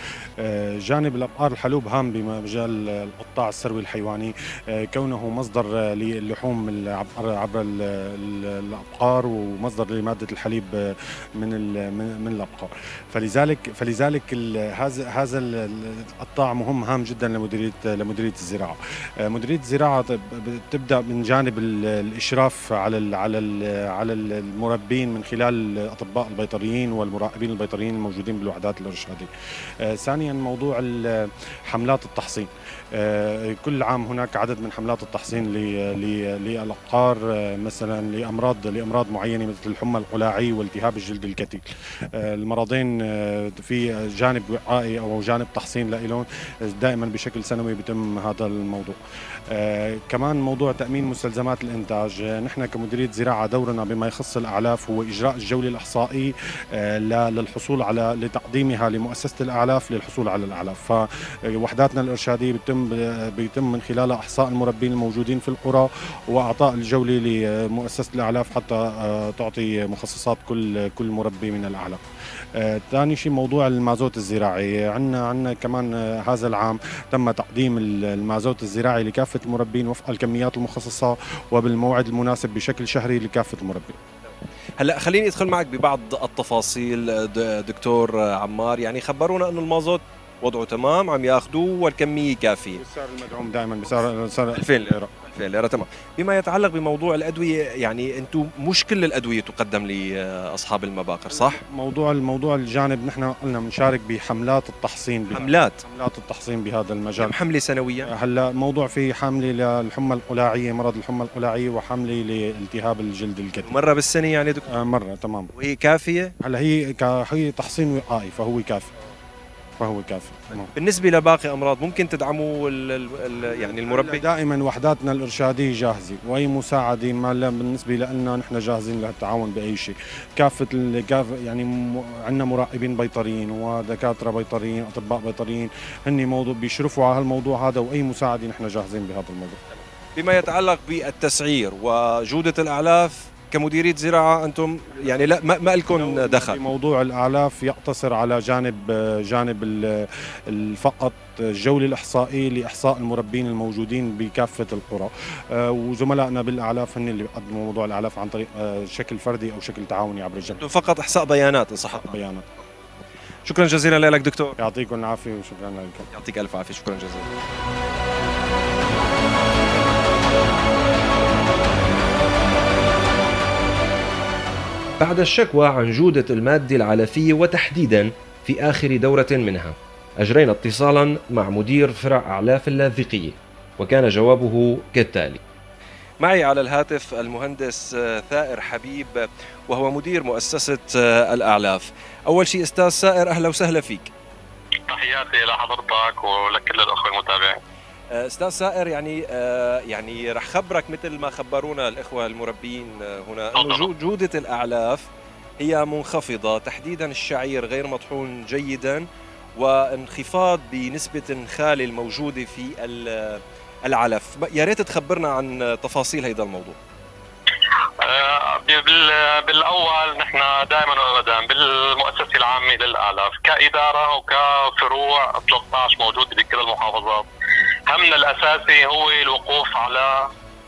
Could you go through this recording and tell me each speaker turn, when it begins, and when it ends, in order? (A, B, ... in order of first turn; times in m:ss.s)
0:00.4-0:29.3 A
0:29.8-0:49.0 A
0:49.5-1:12.0 A
1:12.6-1:24.0 A
1:24.8-1:32.8 B
1:32.8-1:35.1 A
1:34.5-1:41.6 B
1:41.3-1:47.3 A
1:45.3-1:45.8 B
1:47.2-1:48.1 B
1:48.0-1:53.8 A
1:53.6-1:54.7 B
1:54.7-1:55.5 A
1:55.6-1:56.3 B
1:56.4-1:58.9 A
1:59.8-2:00.7 A
2:00.8-2:04.2 B
2:03.5-2:19.6 A
2:20.2-2:26.6 B
2:25.9-2:40.6 A
2:40.6-2:42.2 B
2:41.9-2:42.5 A
2:43.5-2:44.6 B
2:44.6-2:46.1 A
2:46.1-2:47.3 B
2:55.0-3:05.4 B
3:06.2-3:14.1 B
3:14.9-3:17.6 C
3:18.1-3:25.0 B
3:23.6-3:23.9 C
3:25.6-3:29.0 B
3:29.6-3:36.8 B
3:38.0-3:47.3 C
3:47.9-3:50.3 C